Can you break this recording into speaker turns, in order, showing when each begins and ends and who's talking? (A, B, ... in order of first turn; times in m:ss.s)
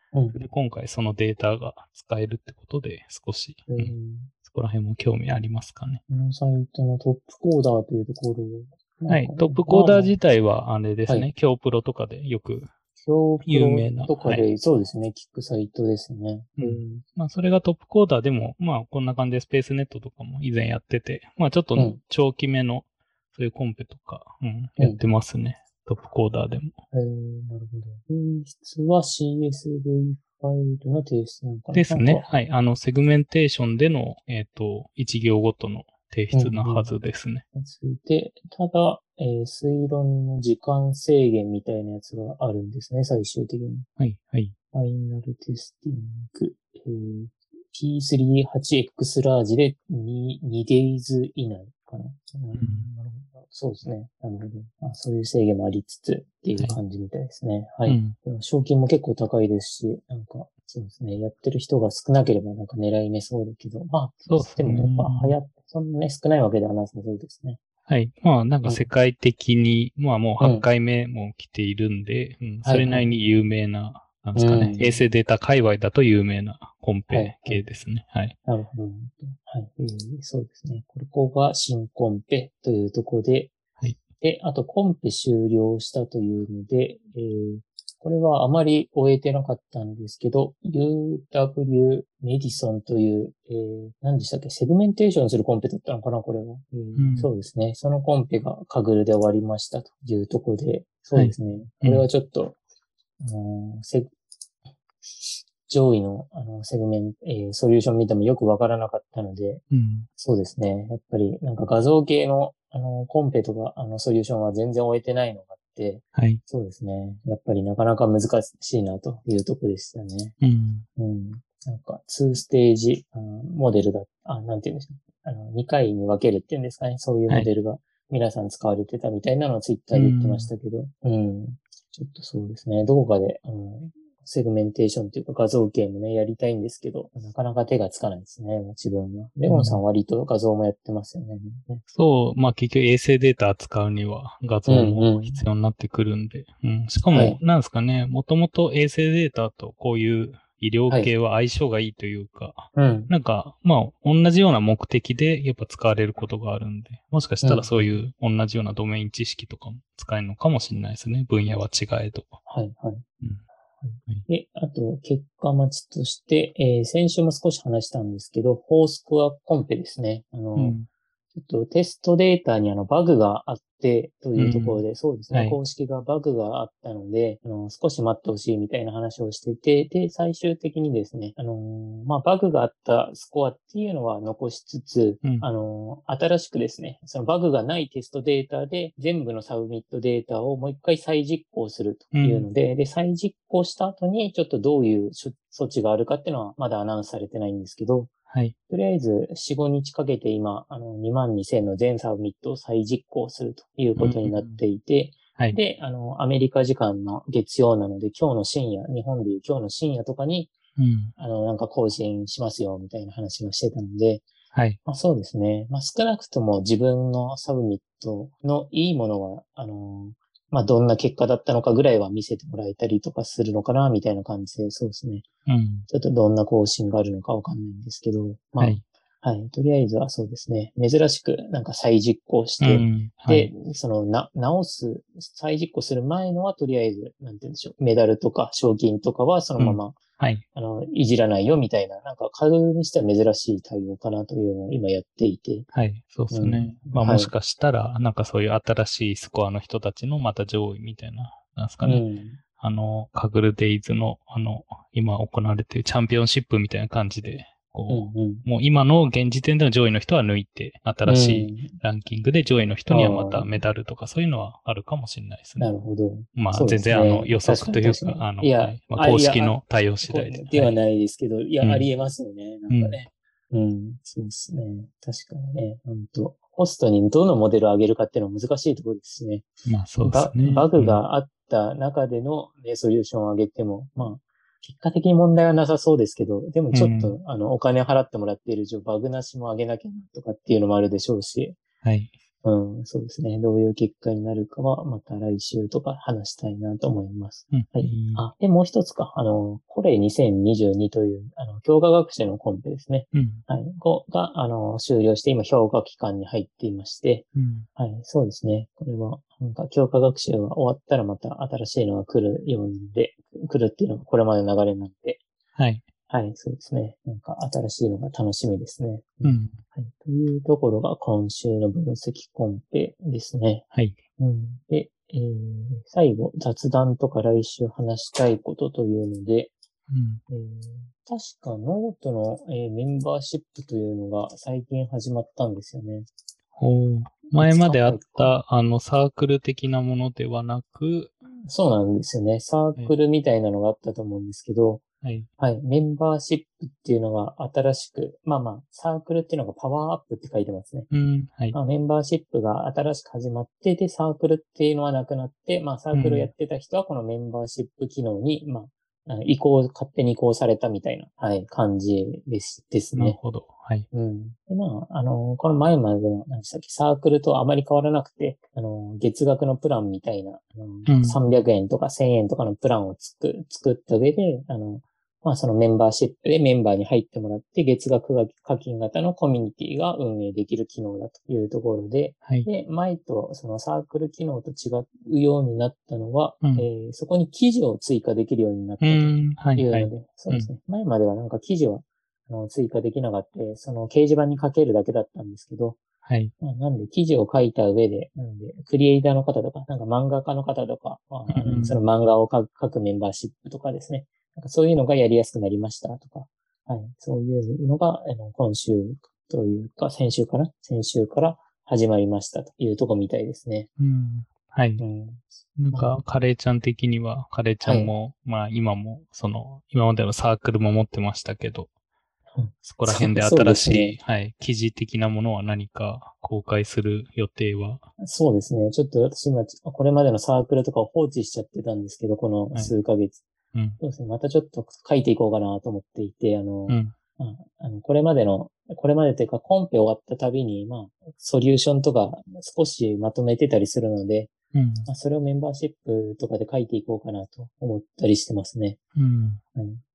0:00.3-0:06.0 A
0:03.7-0:04.3 B
0:06.1-0:10.2 B
0:09.1-0:12.7 A
0:13.0-0:17.0 B
0:13.4-0:14.4 A
0:16.6-0:26.8 A
0:26.9-0:32.2 B
0:31.7-0:37.4 A
0:36.3-0:36.9 B
0:37.5-0:43.9 B
0:44.0-0:44.6 A
0:44.7-1:07.6 B
0:52.6-0:52.9 A
0:57.9-0:58.2 A
1:04.3-1:05.4 A
1:07.9-1:18.4 A
1:10.4-1:10.6 B
1:12.6-1:13.1 B
1:14.4-1:15.0 B
1:17.1-1:17.6 B
1:18.5-1:23.5 B
1:24.2-1:42.6 B
1:37.0-1:37.3 A
1:41.2-1:42.1 A
1:43.2-1:44.1 B
1:45.0-1:49.6 B
1:49.7-1:50.1 A
1:50.2-2:00.4 B
1:56.2-1:56.4 A
2:00.4-2:00.9 A
2:01.0-2:21.8 B
2:09.9-2:10.5 A
2:19.5-2:19.8 A
2:21.9-2:42.4 A
2:24.7-2:25.4 B
2:27.1-2:27.4 B
2:32.8-2:33.1 B
2:37.4-2:37.9 B
2:42.5-2:43.0 B
2:43.8-2:50.8 B
2:50.6-2:50.9 A
2:51.3-3:18.1 B
2:54.4-2:55.6 A
3:12.1-3:12.5 A
3:18.3-3:18.6 A
3:18.7-3:30.6 B
3:24.0-3:24.6 A
3:30.8-3:31.1 A
3:31.2-3:34.2 B
3:34.5-3:34.8 A
3:34.8-3:45.3 B
3:45.5-3:45.9 A
3:45.9-4:00.0 B
3:52.6-3:53.5 A
3:59.6-4:00.4 A
4:00.5-4:05.7 B
4:05.7-4:12.0 A
4:06.3-4:07.3 B
4:11.8-4:12.4 B
4:12.6-4:25.7 A
4:17.9-4:18.4 B
4:21.1-4:21.7 B
4:22.9-4:23.5 B
4:25.6-4:39.5 B
4:26.4-4:30.7 A
4:31.6-4:31.9 A
4:32.7-4:33.0 A
4:39.7-4:41.0 A
4:40.0-4:51.6 B
4:46.7-4:47.2 A
4:51.8-4:52.1 A
4:52.4-5:15.2 B
4:57.5-4:58.2 A
5:03.1-5:03.4 A
5:07.4-5:07.7 A
5:15.6-5:15.8 A
5:16.1-5:23.6 B
5:19.2-5:19.6 A
5:23.7-5:24.0 A
5:24.2-5:29.5 B
5:29.9-5:30.2 A
5:30.3-5:36.1 B
5:36.6-5:41.2 A
5:37.4-5:38.4 B
5:41.4-5:44.8 B
5:45.0-5:45.3 A
5:45.4-5:50.9 B
5:50.9-5:51.6 A
5:51.5-6:03.2 B
5:55.9-5:56.3 A
6:03.0-6:03.9 A
6:03.9-6:35.8 B
6:10.9-6:11.2 A
6:28.8-6:30.5 A
6:36.0-6:36.3 A
6:36.4-6:53.7 B
6:41.3-6:41.8 A
6:53.8-6:54.8 A
6:54.8-6:56.0 B
6:55.6-7:01.7 A
6:57.6-6:57.9 B
7:02.4-7:04.0 B
7:02.6-7:07.9 A
7:08.0-7:13.2 B
7:13.5-7:13.8 A
7:13.8-7:24.3 B
7:16.7-7:17.0 A
7:24.5-7:24.9 A
7:24.9-7:28.8 B
7:29.0-7:29.4 A
7:29.6-7:29.8 B